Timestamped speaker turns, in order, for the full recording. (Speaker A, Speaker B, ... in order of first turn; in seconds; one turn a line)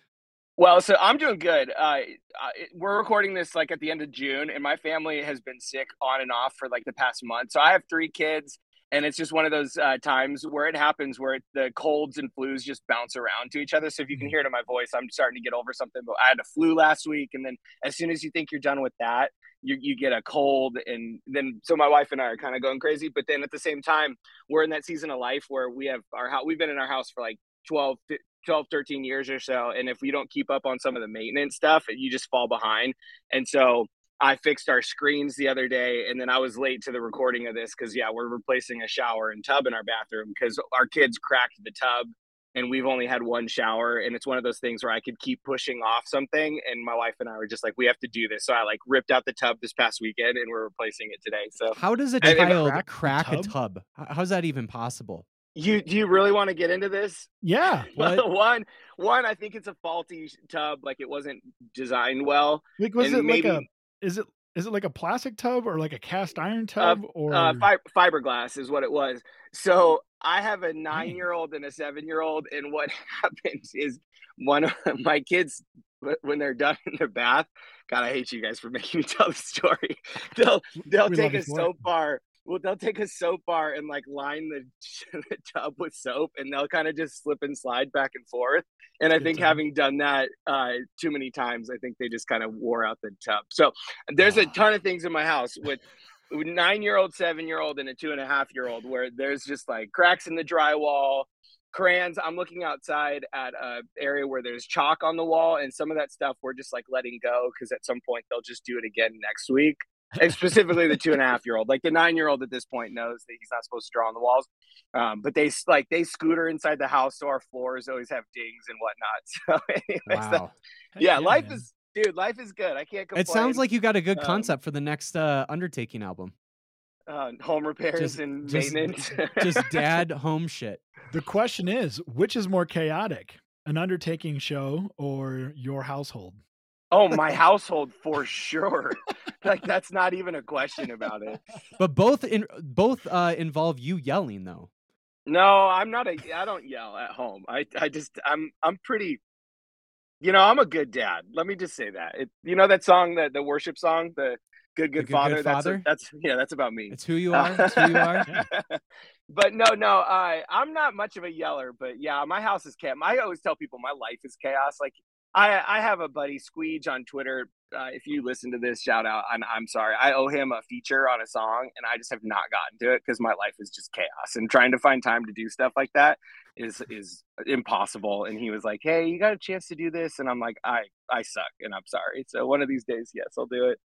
Speaker A: 0.6-52.5
Speaker B: 51.8-55.3
Speaker C: 52.2-53.5
Speaker A: 55.5-57.3
Speaker C: 57.4-57.9
Speaker A: 57.9-63.6
Speaker B: 58.0-58.2
Speaker C: 62.8-67.7
Speaker A: 66.8-120.4
Speaker C: 81.0-81.8
Speaker C: 89.2-89.6
Speaker B: 120.1-120.5
Speaker C: 121.0-121.6
Speaker A: 121.0-123.6
Speaker B: 123.2-126.3
Speaker A: 124.2-124.5
Speaker A: 127.1-129.4
Speaker B: 128.0-130.8
Speaker C: 131.1-136.4
Speaker A: 136.9-141.4
Speaker B: 141.8-144.7
Speaker A: 145.3-149.2
Speaker A: 150.2-183.8
Speaker B: 155.0-155.9
Speaker B: 156.9-158.3